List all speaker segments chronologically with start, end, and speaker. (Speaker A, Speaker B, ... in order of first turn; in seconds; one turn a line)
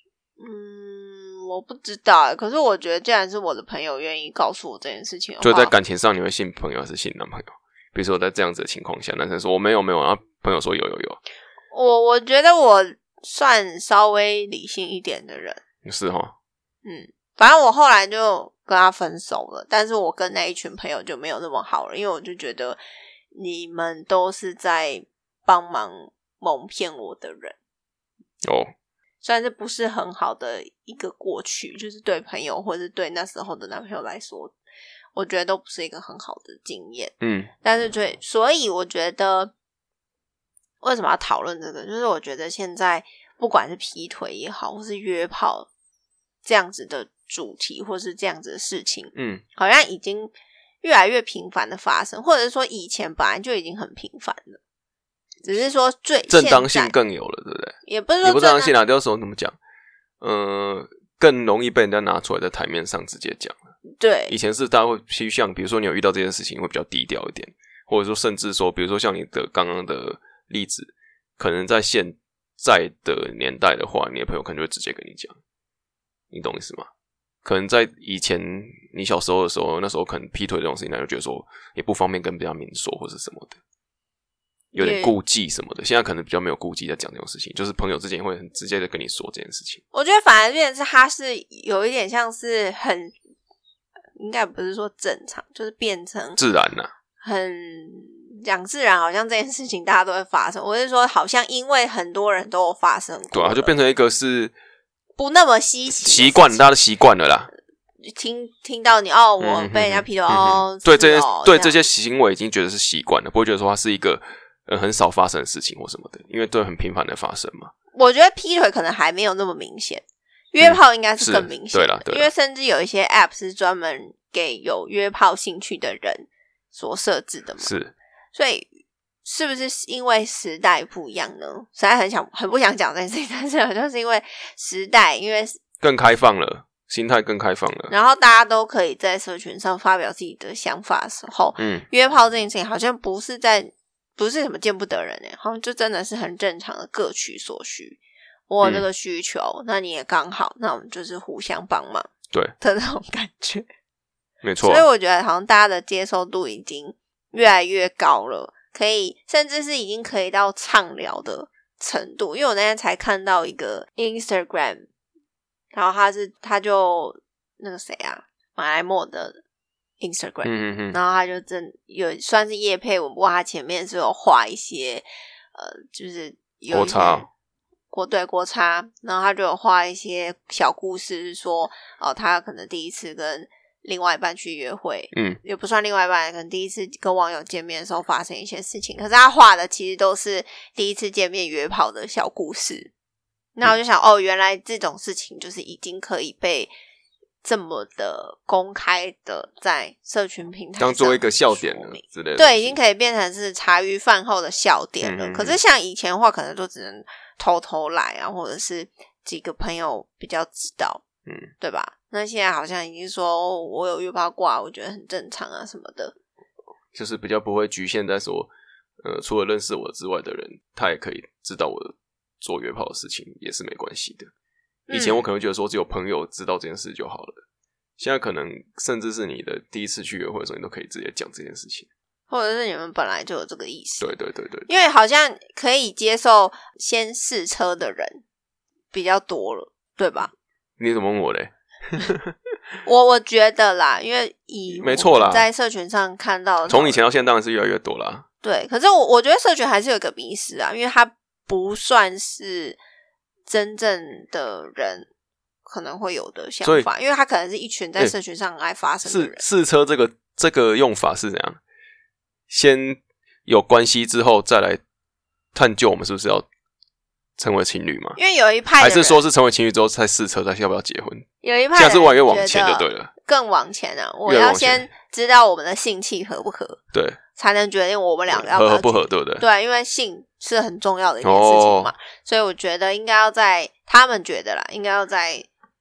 Speaker A: 0.4-5.7
Speaker B: 5.4-11.2
Speaker A: 11.7-15.6
Speaker B: 15.8-16.3
Speaker A: 16.9-22.8
Speaker A: 23.3-27.6
Speaker B: 28.4-28.7
Speaker A: 29.2-34.5
Speaker A: 35.1-39.5
Speaker B: 37.2-37.5
Speaker A: 40.8-45.7
Speaker A: 46.5-54.6
Speaker B: 49.1-49.4
Speaker A: 55.5-56.9
Speaker B: 56.3-59.6
Speaker A: 57.9-58.7
Speaker B: 60.2-63.6
Speaker A: 64.0-64.3
Speaker B: 64.3-75.4
Speaker B: 76.3-76.9
Speaker B: 77.4-83.6
Speaker A: 84.7-85.2
Speaker B: 84.8-89.8
Speaker A: 89.9-93.1
Speaker A: 94.2-96.4
Speaker B: 96.4-96.9
Speaker A: 97.2-103.7
Speaker B: 103.3-104.5
Speaker A: 105.2-106.7
Speaker B: 106.0-107.5
Speaker A: 108.1-111.8
Speaker B: 109.4-117.7
Speaker A: 117.9-127.7
Speaker B: 120.6-122.3
Speaker B: 127.6-127.9
Speaker A: 128.3-128.7
Speaker A: 129.2-135.6
Speaker B: 135.8-137.9
Speaker A: 137.9-152.1
Speaker B: 141.6-141.9
Speaker A: 152.6-153.7
Speaker B: 154.4-154.8
Speaker A: 154.6-164.9
Speaker A: 165.7-169.4
Speaker A: 170.0-177.3
Speaker B: 170.4-171.0
Speaker B: 176.7-177.3
Speaker A: 177.9-192.9
Speaker B: 185.1-185.4
Speaker A: 193.6-196.7
Speaker A: 197.4-211.0
Speaker B: 200.8-202.8
Speaker B: 205.0-205.6
Speaker A: 211.6-216.2
Speaker B: 216.9-218.5
Speaker B: 219.0-224.3
Speaker A: 224.9-225.2
Speaker B: 224.9-227.4
Speaker B: 228.0-231.9
Speaker A: 232.3-234.1
Speaker B: 234.0-234.7
Speaker A: 234.7-238.2
Speaker A: 238.9-240.3
Speaker B: 240.8-242.4
Speaker A: 242.8-247.0
Speaker B: 244.8-245.5
Speaker B: 246.7-248.2
Speaker A: 248.4-252.8
Speaker A: 253.5-255.1
Speaker A: 255.7-259.4
Speaker B: 259.1-261.6
Speaker B: 262.5-264.8
Speaker B: 265.5-266.5
Speaker B: 267.4-268.2
Speaker A: 268.2-269.2
Speaker B: 268.8-273.1
Speaker A: 271.4-276.8
Speaker B: 274.3-274.9
Speaker B: 276.9-277.2
Speaker A: 277.4-285.5
Speaker B: 278.3-279.4
Speaker B: 281.2-281.9